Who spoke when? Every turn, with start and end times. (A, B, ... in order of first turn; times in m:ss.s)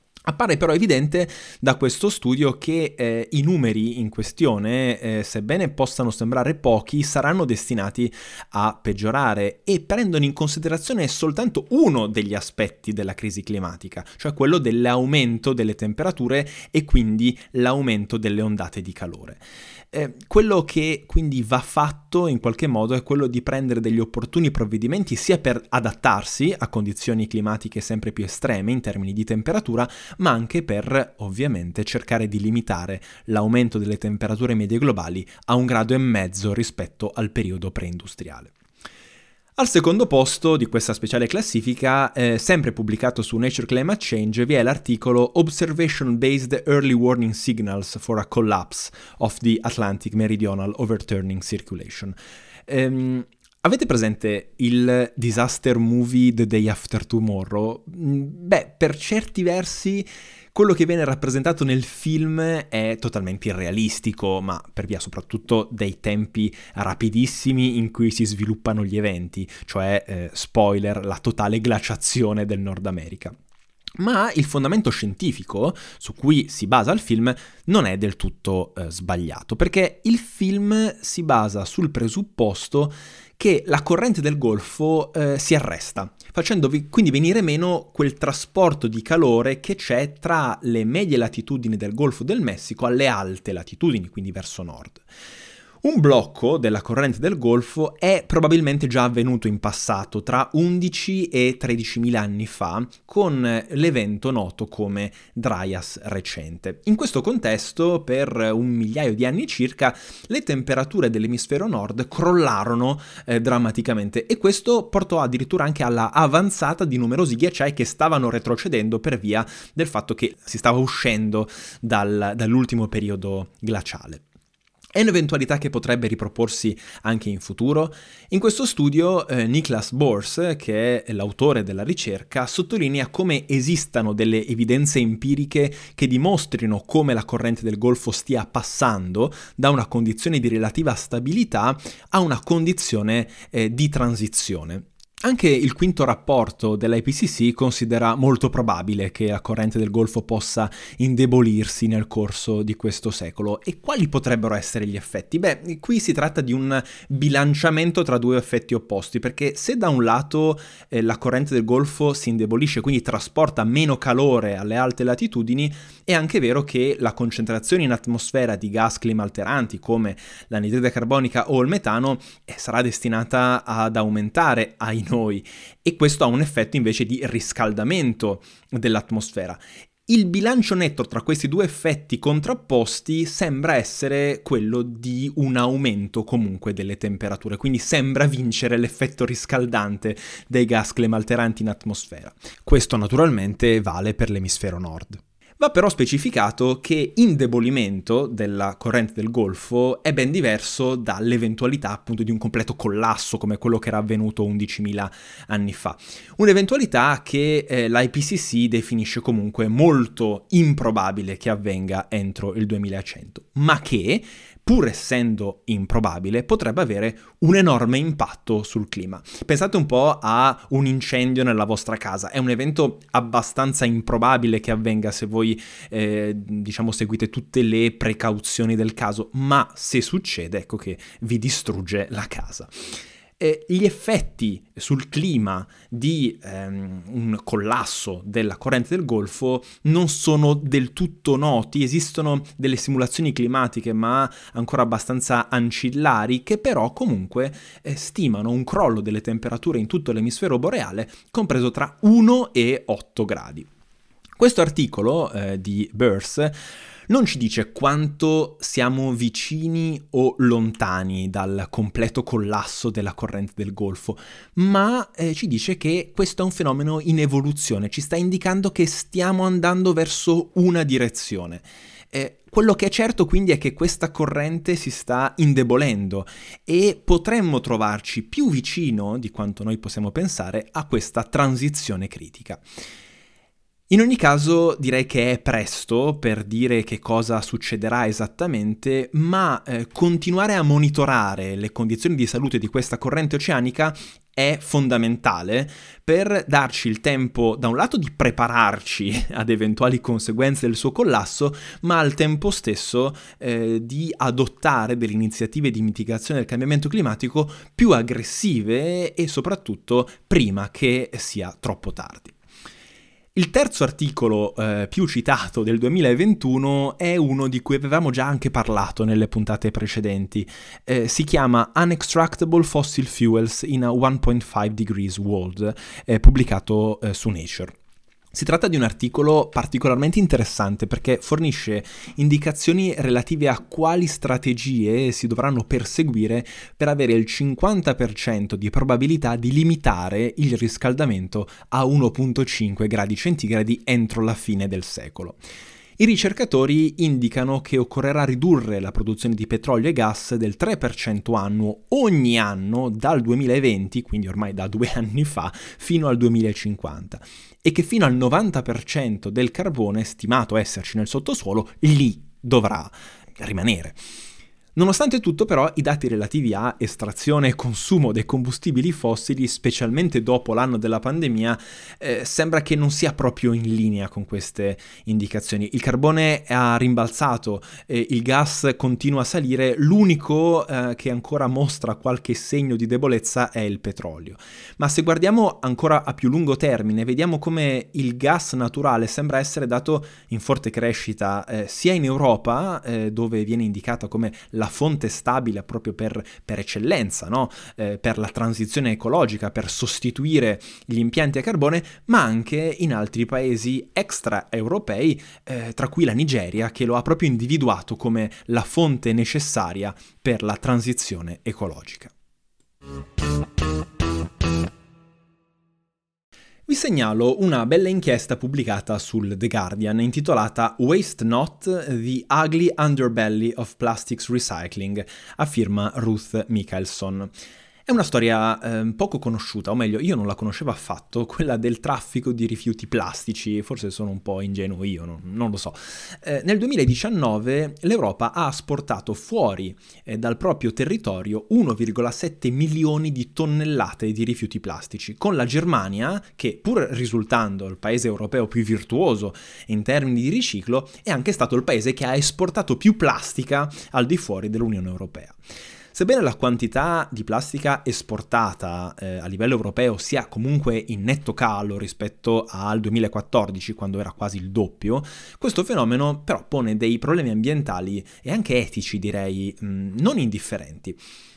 0:00.3-0:38.5 A
0:39.6-0:52.2 A
0:52.7-1:13.4 A
1:14.0-1:35.0 A
1:35.8-2:04.2 A
2:04.9-3:52.8 A
3:53.4-4:13.7 A
4:14.4-4:16.6 A
4:17.1-4:42.6 A
4:43.9-5:12.3 A
5:13.3-5:27.8 A
5:28.3-5:45.4 A
5:46.0-6:04.0 A
6:04.8-6:52.1 A
6:56.7-7:07.3 A
7:07.9-7:35.4 A
7:35.9-7:51.0 A